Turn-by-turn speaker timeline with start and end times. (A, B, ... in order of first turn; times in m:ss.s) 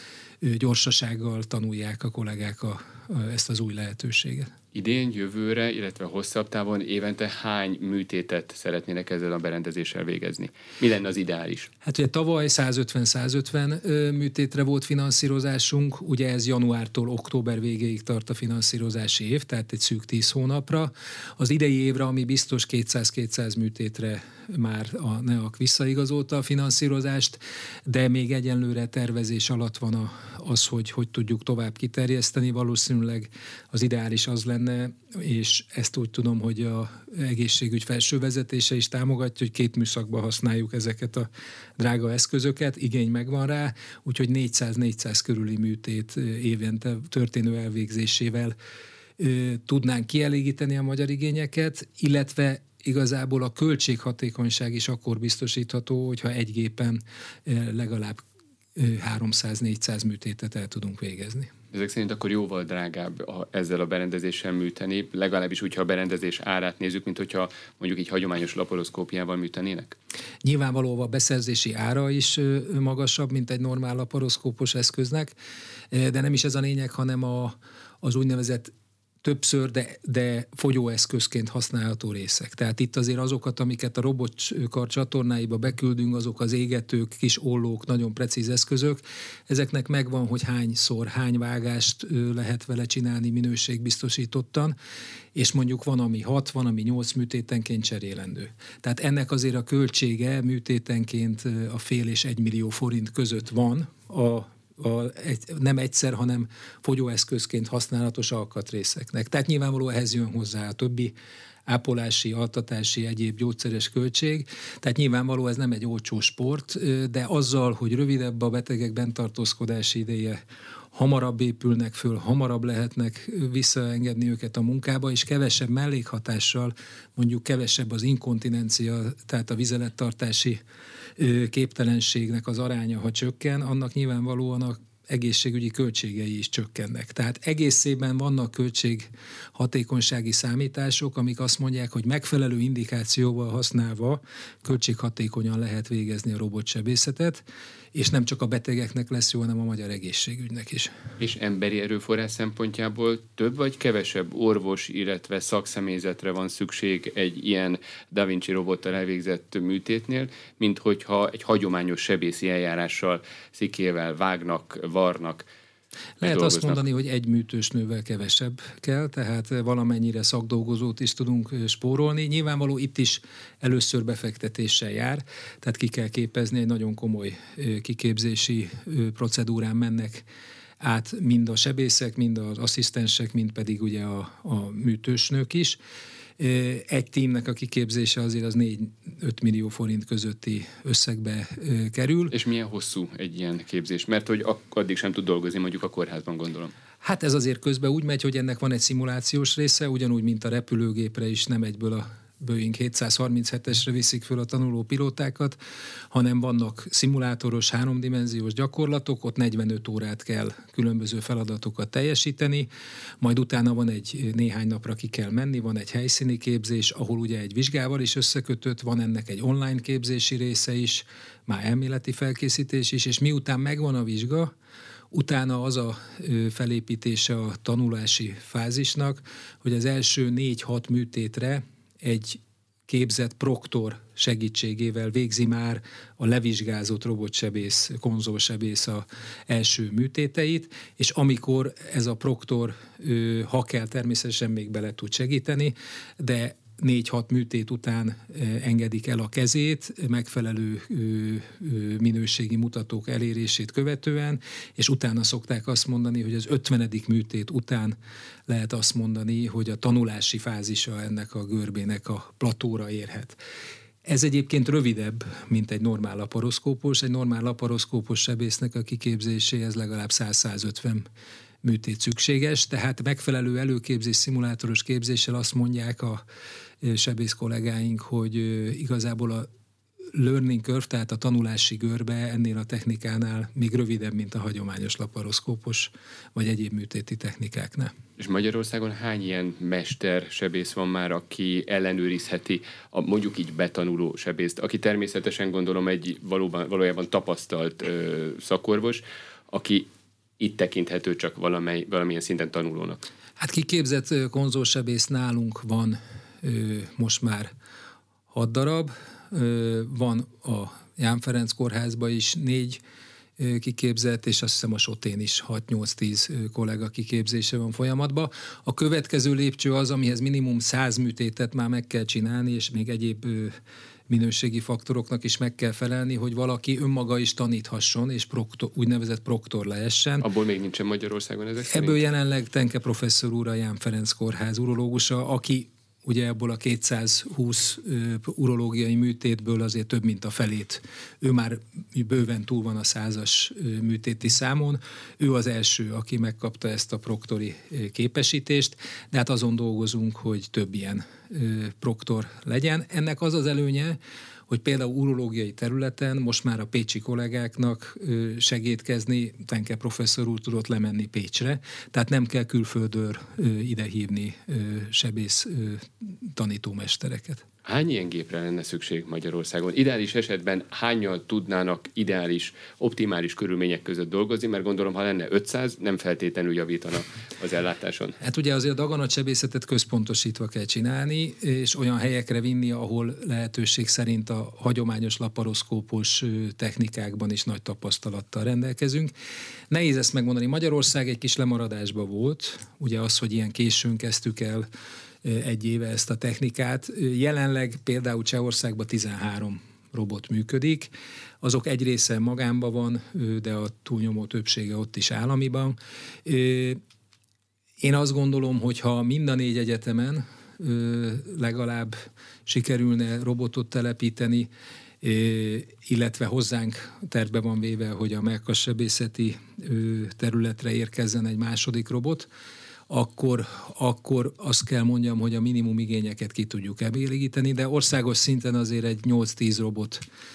0:00.4-0:04.5 A
0:04.7-0:11.7 B
0:11.8-0:48.5 A
0:49.2-0:58.2 A
0:58.8-1:01.5 A
1:01.7-1:10.0 B
1:10.4-1:15.3 A
1:15.9-1:18.7 A
1:19.2-1:34.8 A
1:35.3-1:51.1 A
1:51.7-2:00.4 A
2:00.9-2:10.6 A
2:11.2-2:30.9 A
2:31.2-2:45.5 B
2:46.2-3:00.3 A
2:46.2-2:46.8 B
3:00.8-3:05.8 A
3:06.4-3:12.3 A
3:12.3-3:16.7 B
3:17.0-3:25.6 A
3:26.1-3:32.7 A
3:33.2-3:44.5 A
3:45.1-4:18.0 A
4:18.5-4:23.4 A
4:24.0-4:31.0 A
4:31.6-4:36.2 A
4:36.8-4:39.5 A
4:40.1-4:47.9 A
4:48.2-4:59.9 B
5:00.4-5:03.0 B
5:03.4-5:07.5 A
5:08.3-5:12.8 A
5:13.4-5:23.6 A
5:24.1-5:30.3 A
5:30.2-5:32.0 B
5:31.7-5:54.0 A
5:54.5-6:07.4 A
6:07.6-6:18.2 B
6:18.2-6:29.1 A
6:29.7-6:34.7 A
6:35.2-6:46.8 A
6:47.8-6:52.0 A
6:52.5-6:54.5 A
6:55.0-7:02.3 A
7:02.9-7:10.0 A